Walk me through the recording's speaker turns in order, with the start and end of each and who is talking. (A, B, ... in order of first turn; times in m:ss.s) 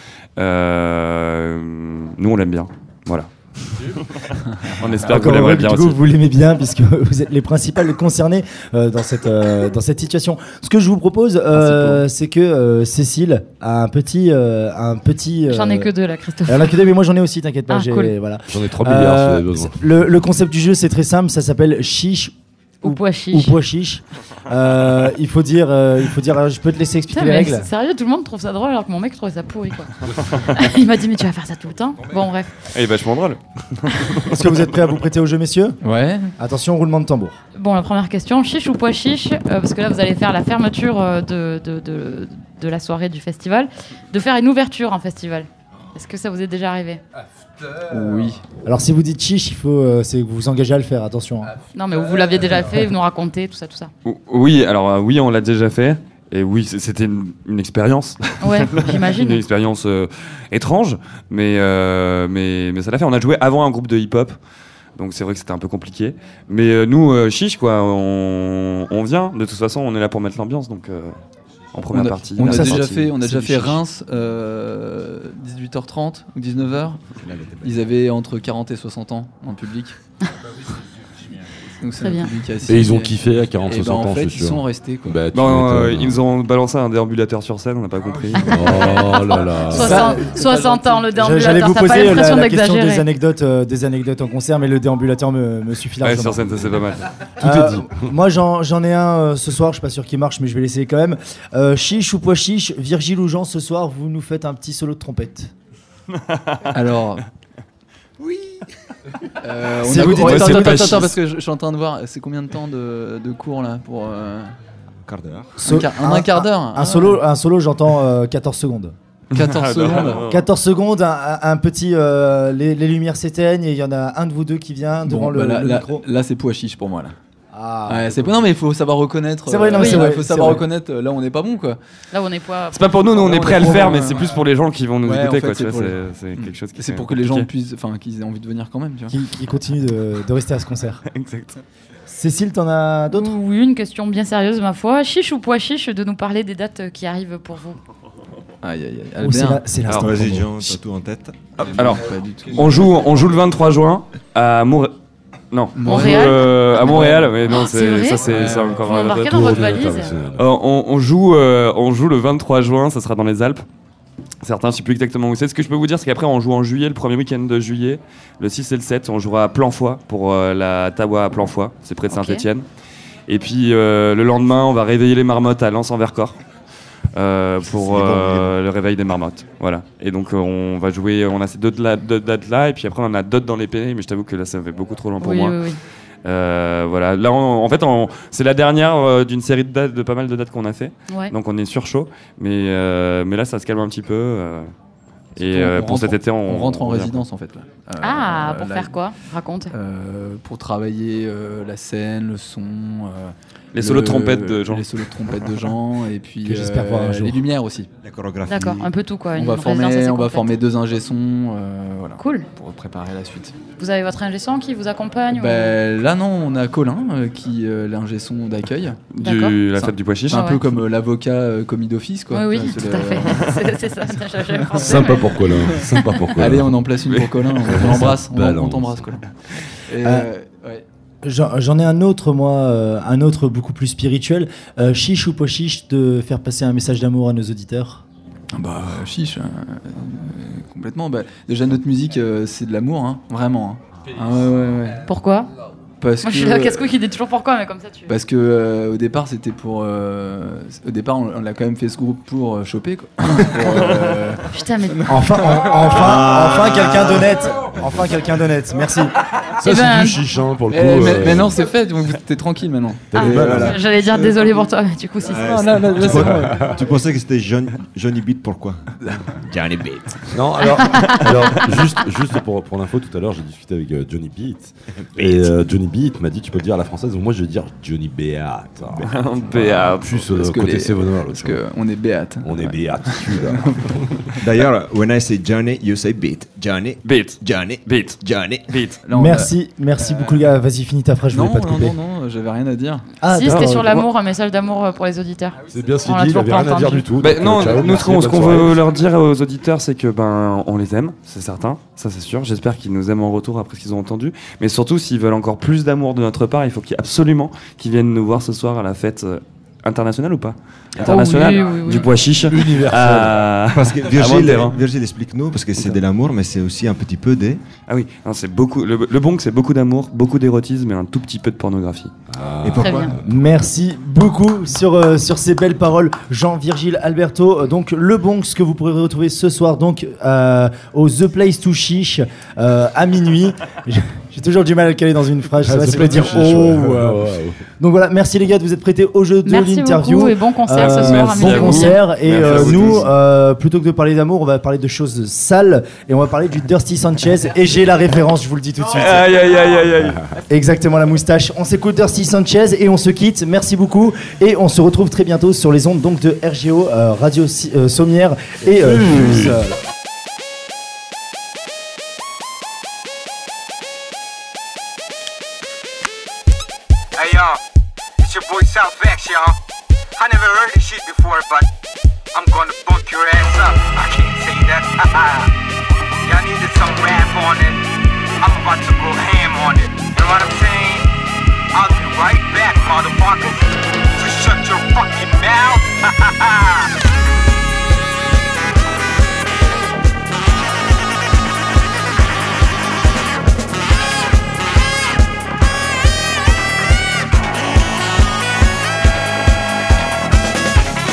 0:00.4-0:06.0 A
0:05.0-0:15.9 B
0:11.5-0:12.0 C
0:15.5-0:16.7 D
0:16.4-0:27.7 B
0:17.7-0:18.1 D
0:18.5-0:19.8 E
0:22.8-0:23.6 D
0:27.1-0:32.6 D
0:30.1-0:30.6 A
0:32.7-0:34.4 A
0:34.2-0:35.8 B
0:35.8-0:36.3 C
0:36.4-0:37.4 B
0:37.5-0:47.0 D
0:47.7-0:48.4 C
0:48.6-0:51.5 B
0:51.7-0:53.9 D
0:54.0-1:04.4 A
0:58.4-0:59.4 D
1:05.0-1:11.1 A
1:11.7-1:13.1 A
1:11.9-1:17.1 C
1:12.4-1:13.8 B
1:17.2-1:17.8 F
1:17.6-1:20.0 C
1:21.8-1:25.2 C
1:22.0-1:22.3 D
1:22.6-1:26.2 E
1:25.3-1:29.0 A
1:28.4-1:30.2 E
1:28.5-1:33.0 D
1:29.7-1:30.5 B
1:29.8-1:31.0 C
1:31.1-1:36.5 B
1:36.0-1:37.1 A
1:37.4-1:45.5 B
1:37.4-1:37.9 E
1:46.3-1:46.6 A
1:46.7-1:47.2 C
1:49.4-1:54.5 C
1:49.7-1:51.0 B
1:49.9-1:51.1 A
1:55.0-1:55.6 F
1:55.6-1:57.2 C
1:55.6-1:58.9 B
1:59.3-2:00.2 C
1:59.3-2:00.5 A
2:00.1-2:06.0 B
2:05.0-2:07.1 C
2:07.5-2:08.4 B
2:07.8-2:11.8 C
2:09.5-2:10.6 B
2:09.7-2:10.1 D
2:12.1-2:12.9 D
2:12.7-2:17.5 A
2:12.9-2:14.3 C
2:15.0-2:19.2 C
2:19.1-2:21.0 B
2:21.1-2:21.6 A
2:22.1-2:23.4 B
2:23.1-2:27.8 D
2:28.6-2:29.7 C
2:29.2-2:30.8 B
2:29.9-2:32.0 F
2:31.5-2:33.0 C
2:31.7-2:34.9 A
2:35.5-2:39.8 A
2:35.7-2:37.6 C
2:35.8-2:36.7 D
2:37.5-2:40.1 D
2:38.3-2:38.9 C
2:39.2-2:40.4 E
2:40.3-2:43.6 A
2:44.4-2:52.6 A
2:52.1-2:52.5 D
2:53.3-2:56.4 A
2:57.1-3:05.6 A
2:57.6-2:58.5 F
3:05.2-3:05.8 D
3:06.2-3:14.7 A
3:11.1-3:11.3 D
3:15.4-3:17.2 A
3:15.4-3:19.1 C
3:18.0-3:19.7 D
3:19.7-3:27.9 C
3:23.8-3:24.9 A
3:26.4-3:27.4 B
3:28.0-3:28.9 F
3:28.4-3:30.6 D
3:29.3-3:33.6 C
3:32.2-3:32.5 D
3:33.7-3:35.8 D
3:35.3-3:39.0 C
3:39.1-3:40.6 A
3:39.2-3:39.6 D
3:39.7-3:43.5 C
3:40.3-3:40.6 D
3:42.3-3:45.6 D
3:44.4-3:50.8 C
3:44.8-3:46.8 E
3:47.0-3:47.8 A
3:47.7-3:49.0 E
3:50.0-3:50.3 B
3:51.2-3:58.0 B
3:58.5-4:05.0 C
4:05.0-4:05.5 D
4:06.0-4:07.0 C
4:06.2-4:08.1 D
4:08.1-4:16.0 C
4:13.7-4:14.1 F
4:14.5-4:15.1 D
4:15.0-4:19.2 B
4:15.7-4:17.4 F
4:19.6-4:21.6 E
4:19.6-4:20.2 D
4:20.7-4:23.6 C
4:23.1-4:23.8 E
4:23.1-4:25.5 D
4:23.3-4:24.5 F
4:25.2-4:31.1 F
4:25.3-4:26.6 C
4:26.1-4:26.8 E
4:30.3-4:41.6 E
4:30.6-4:31.5 D
4:35.1-4:35.6 F
4:38.9-4:39.3 F
4:39.0-4:40.3 A
4:40.3-4:44.0 C
4:42.4-4:44.3 E
4:44.4-4:48.8 F
4:47.0-4:49.0 A
4:49.0-4:50.5 C
4:49.1-4:51.9 B
4:51.3-4:53.1 C
4:53.2-4:54.0 B
4:53.2-4:57.1 D
4:53.4-4:53.9 A
4:55.7-4:58.8 E
4:57.2-5:14.8 A
5:11.0-5:12.1 D
5:12.5-5:13.4 E
5:13.5-5:17.6 F
5:17.9-5:22.1 A
5:22.3-5:23.2 E
5:22.6-5:23.1 F
5:22.7-5:23.1 D
5:23.1-5:37.2 B
5:35.6-5:37.6 E
5:37.8-5:49.4 B
5:39.4-5:42.0 D
5:40.8-5:43.1 A
5:48.9-5:50.2 A
5:50.5-5:59.8 B
5:59.0-5:59.5 E
6:07.1-6:07.6 G
6:08.2-6:09.6 G
6:10.2-6:11.7 G
6:12.3-6:15.5 G
6:16.2-6:17.8 G
6:18.4-6:21.1 G
6:21.7-6:26.9 G